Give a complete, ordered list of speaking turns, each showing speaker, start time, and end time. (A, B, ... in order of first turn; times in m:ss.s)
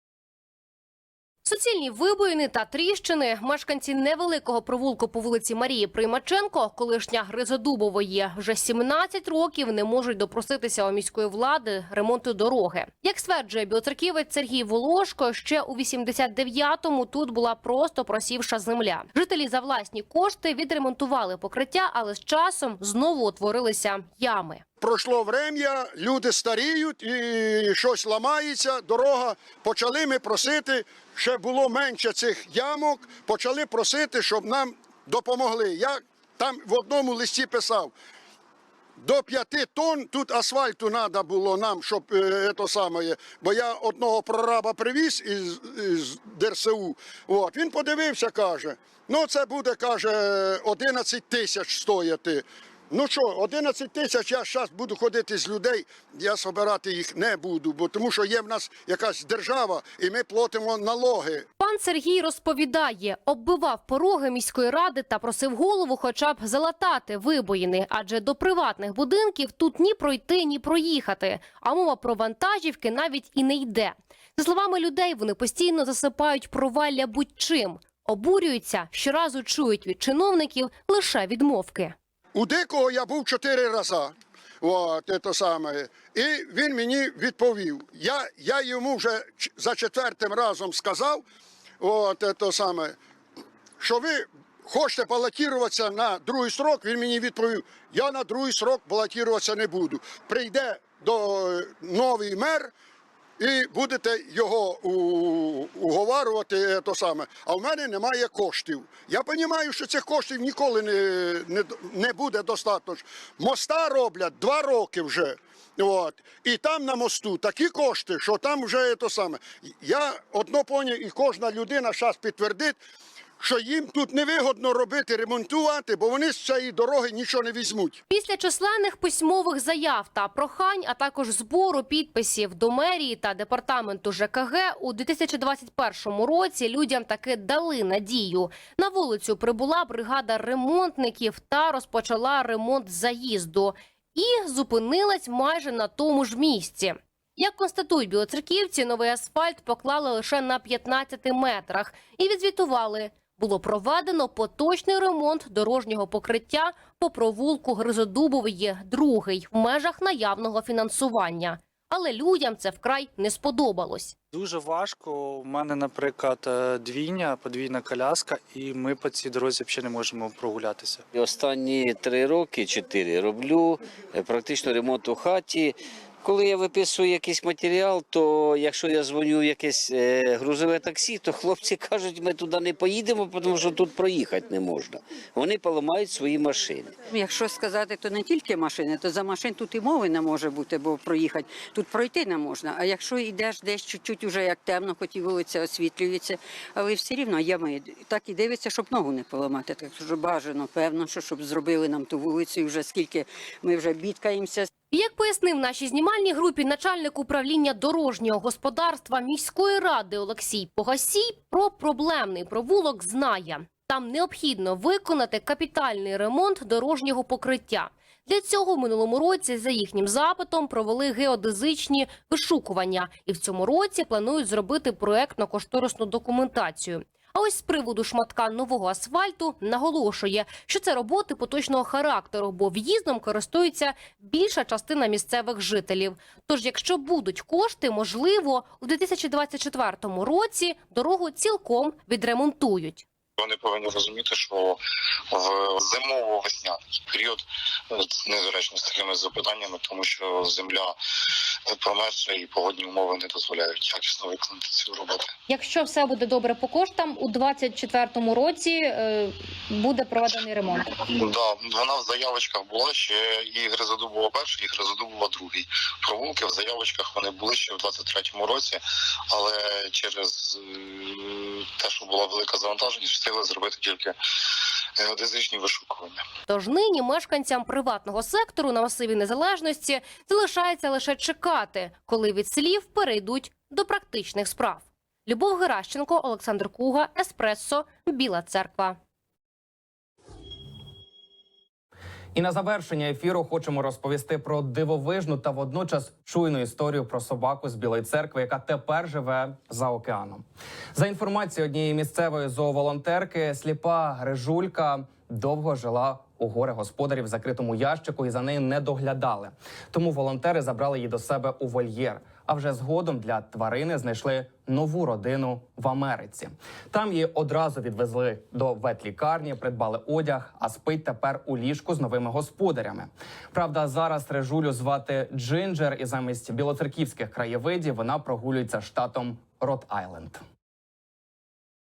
0:01.4-0:24.6 A
0:24.8-0:37.9 B
0:39.0-1:01.4 B
1:01.6-1:22.0 A
1:22.3-1:31.2 B
1:31.8-1:33.0 B
1:33.8-1:42.7 B
1:43.4-2:02.8 B
2:03.4-2:08.0 B
2:08.1-2:44.1 A
2:44.3-2:51.0 C
2:51.2-2:55.6 D
2:56.2-3:06.9 D
3:07.1-3:24.7 E
3:24.9-4:03.0 A
4:03.4-4:04.8 F
4:05.3-4:10.9 F
4:11.7-4:15.3 F
4:15.5-4:20.8 G
4:21.0-4:28.8 F
4:29.3-4:34.1 F
4:35.0-4:36.2 F
4:36.5-4:49.0 A
4:52.3-5:00.4 H
5:00.9-5:30.4 H